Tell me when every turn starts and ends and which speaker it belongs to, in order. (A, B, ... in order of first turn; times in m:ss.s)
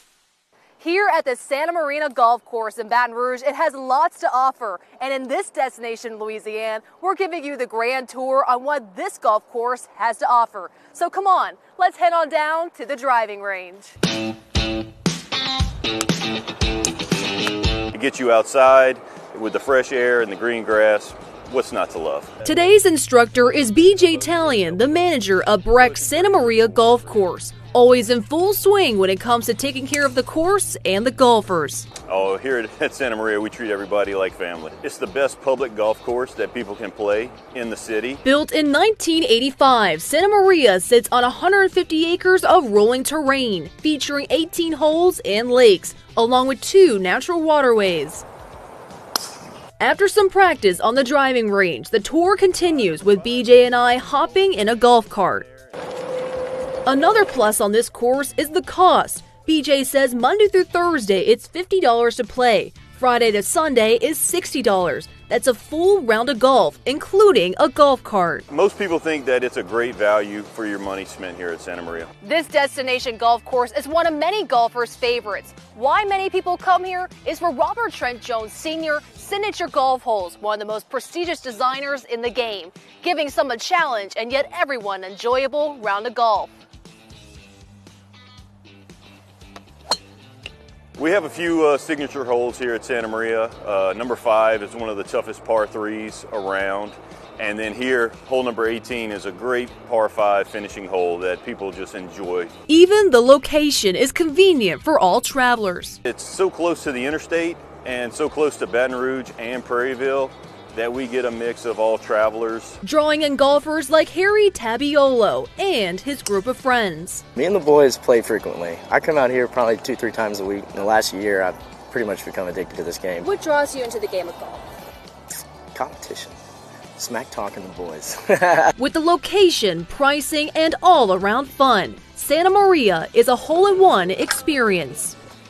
0:00.8-0:13.9 A
0:17.9-0:22.3 B
0:22.4-0:31.9 A
0:32.0-0:38.2 B
0:38.2-0:48.2 A
0:49.8-0:55.4 A
0:56.9-1:08.4 A
1:08.5-1:12.1 B
1:12.2-1:26.5 A
1:31.0-1:42.5 B
1:42.7-1:46.0 A
1:46.0-1:52.8 B
1:52.8-1:57.2 A
1:57.4-2:03.3 C
2:03.2-2:04.6 A
2:05.7-2:06.4 C
2:07.0-2:08.7 C
2:08.8-2:15.2 A